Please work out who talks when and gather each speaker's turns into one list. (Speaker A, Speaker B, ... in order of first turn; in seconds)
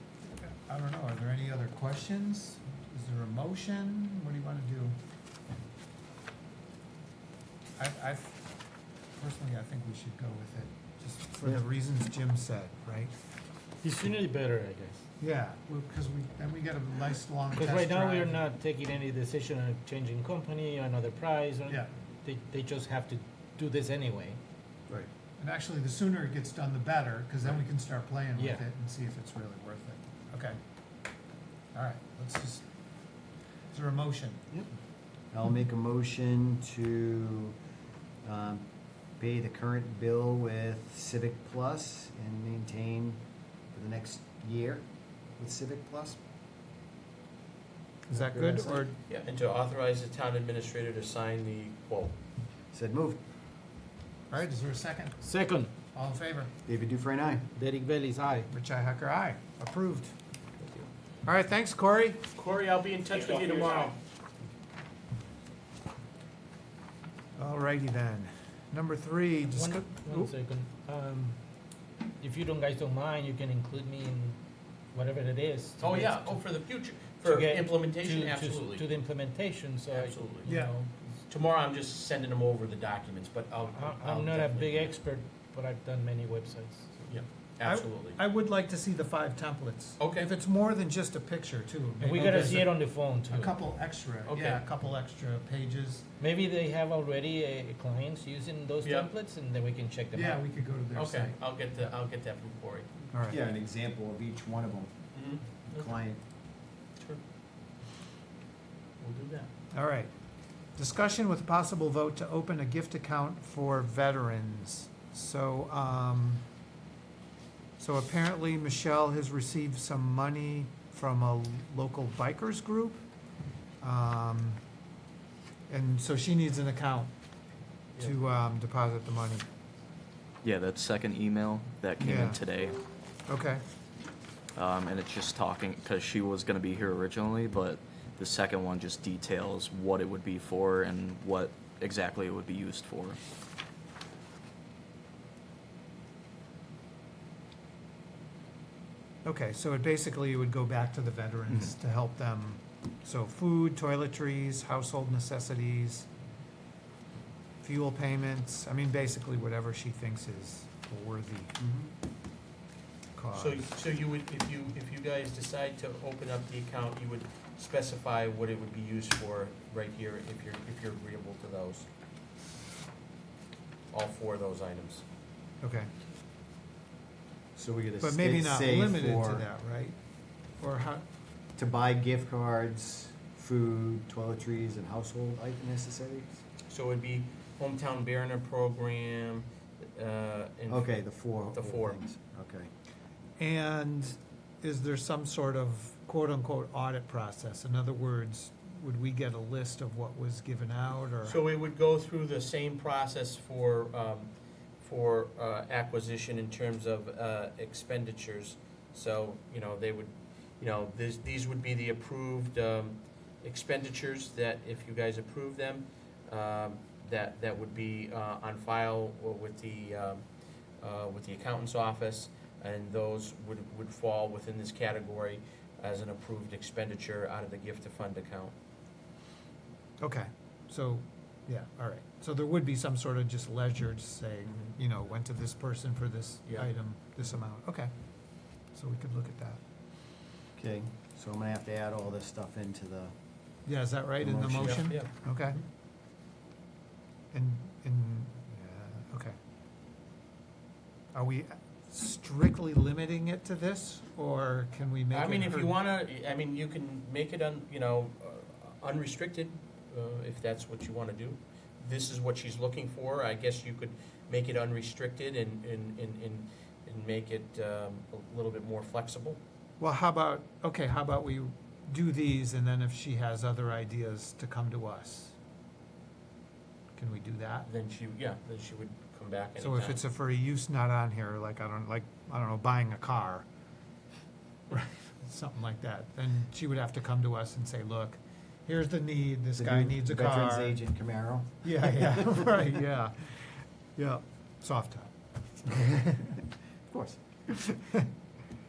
Speaker A: 0.2-5.0, 7.8-8.5, 9.1-13.1, 15.2-18.4, 24.9-30.6, 31.7-32.7, 33.7-34.5, 48.1-49.0, 54.3-55.2, 55.9-56.5, 58.5-60.1, 61.2-62.2, 67.3-70.3, 80.4-80.7, 87.6-96.1, 100.1-101.3, 103.1-103.4, 109.7-110.1, 110.8-116.4, 117.8-123.0, 123.8-124.6, 125.7-127.1, 128.0-129.4, 132.0-132.4, 133.3-133.6, 149.2-156.1, 157.6-161.5, 163.2-163.6, 175.6-175.9, 178.0-180.0, 180.6-181.0, 193.4-201.4, 230.0-237.9, 238.7-239.6, 243.7-245.6, 247.3-249.3, 251.1-255.7, 269.8-275.4, 277.0-277.7, 279.6-283.4, 284.7-290.8, 291.6-295.1, 295.6-296.4, 297.7-298.0
Speaker B: 13.8-15.0, 17.5-24.4, 28.4-28.6, 55.2-55.7, 57.5-58.5, 60.6-60.9, 63.4-63.9, 69.5-71.4, 72.2-74.4, 74.9-76.4, 77.2-80.9, 83.7-87.2, 92.0-93.5, 96.2-100.4
Speaker C: 35.3-37.5, 38.2-38.6, 39.2-44.8, 45.4-46.2, 48.1-48.8, 52.7-53.2, 56.6-57.5, 103.3-104.9, 105.7-106.2, 161.6-161.9, 177.6-179.4, 181.6-186.4, 190.7-192.7, 240.6-243.1, 244.2-244.9, 289.6-292.5, 296.9-297.2
Speaker D: 49.1-52.1, 62.3-64.0, 75.8-78.8, 79.9-80.5, 81.3-85.0, 87.1-88.2, 90.0-90.3, 94.2-94.6, 98.8-99.1, 100.9-102.9, 105.1-106.0, 109.0-109.5, 163.3-171.9, 173.9-175.0, 186.7-192.0, 201.2-220.2, 220.8-228.5, 234.4-234.7, 236.4-236.7, 244.6-245.6, 255.1-269.4, 277.6-280.0
Speaker E: 130.4-132.8, 134.6-143.2